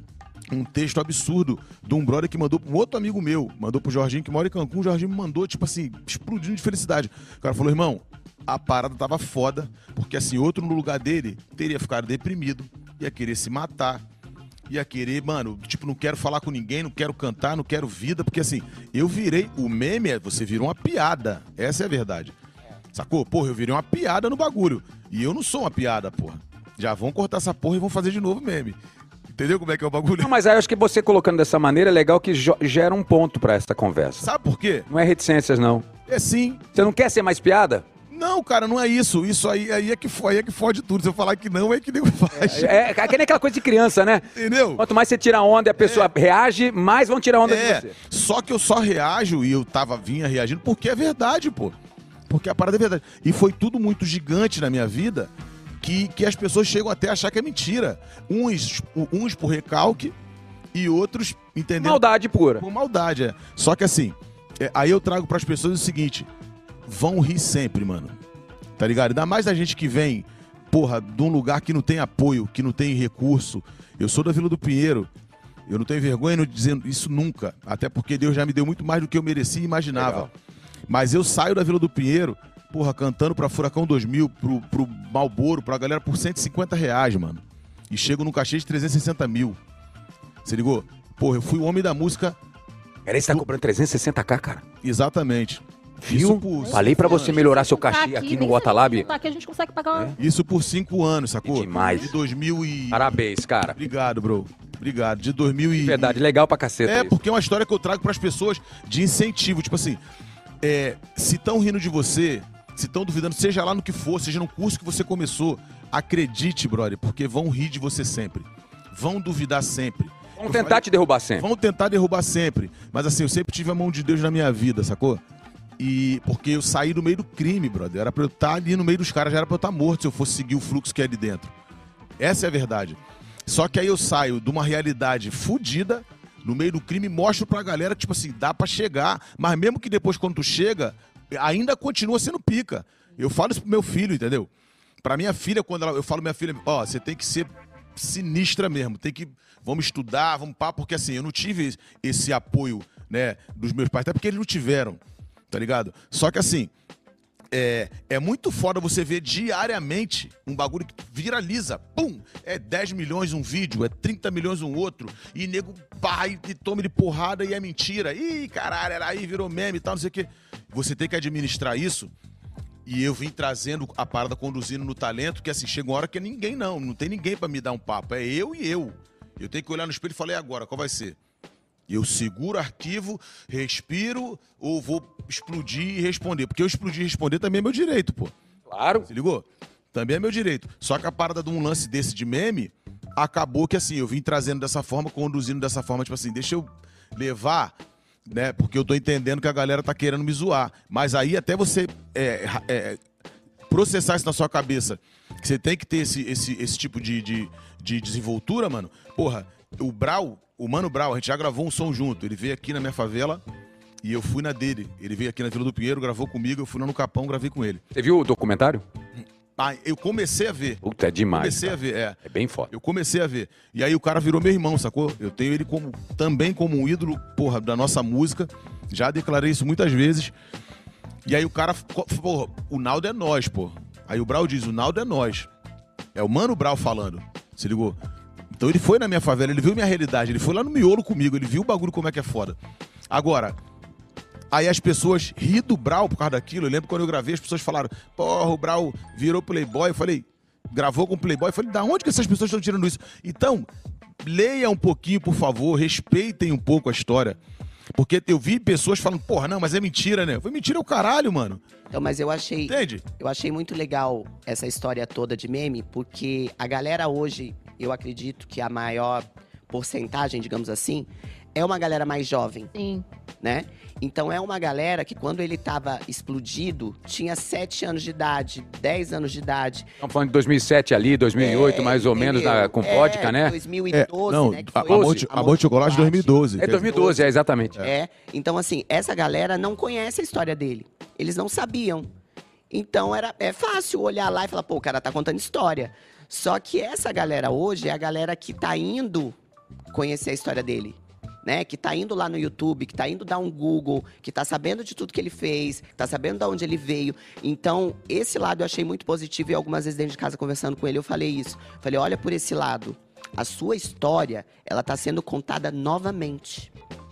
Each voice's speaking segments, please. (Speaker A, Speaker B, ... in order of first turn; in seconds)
Speaker A: 0.5-14.0, 14.7-22.4, 22.9-28.8, 29.3-30.3, 34.2-34.9, 36.1-36.8, 38.1-43.2, 44.3-44.8, 45.8-46.1, 47.4-51.8, 52.3-60.1, 60.7-62.0, 62.6-66.3, 66.9-68.2, 68.8-75.1, 75.7-80.3, 80.9-89.6, 90.5-92.4, 94.8-97.5, 100.2-106.2, 106.8-110.0, 110.6-120.9, 121.4-125.2, 125.8-131.5, 132.2-144.5, 145.0-156.7, 157.5-172.1, 172.9-181.2, 181.9-188.3, 189.1-197.8, 198.3-203.0, 203.7-213.4, 214.0-217.8, 219.6-230.3, 231.3-235.5, 236.2-238.0, 238.6-242.6, 243.1-243.6, 244.5-253.7, 254.2-257.4, 257.9-261.6, 262.7-263.1, 283.9-287.2
Speaker B: 30.2-34.3, 34.9-35.9, 36.8-37.9, 42.3-47.9, 61.8-62.6, 79.9-80.3, 93.1-94.6, 96.0-99.1, 101.4-102.1, 102.9-103.8, 105.8-107.2, 120.4-121.5, 188.7-189.1, 217.9-218.8, 220.8-222.7, 280.0-283.6, 284.9-285.3, 286.6-287.8
Speaker C: 96.6-100.2, 101.8-102.1, 272.8-273.1
Speaker D: 261.9-272.7, 273.4-279.9, 281.4-287.2, 287.8-292.1, 292.7-299.4, 299.9-316.7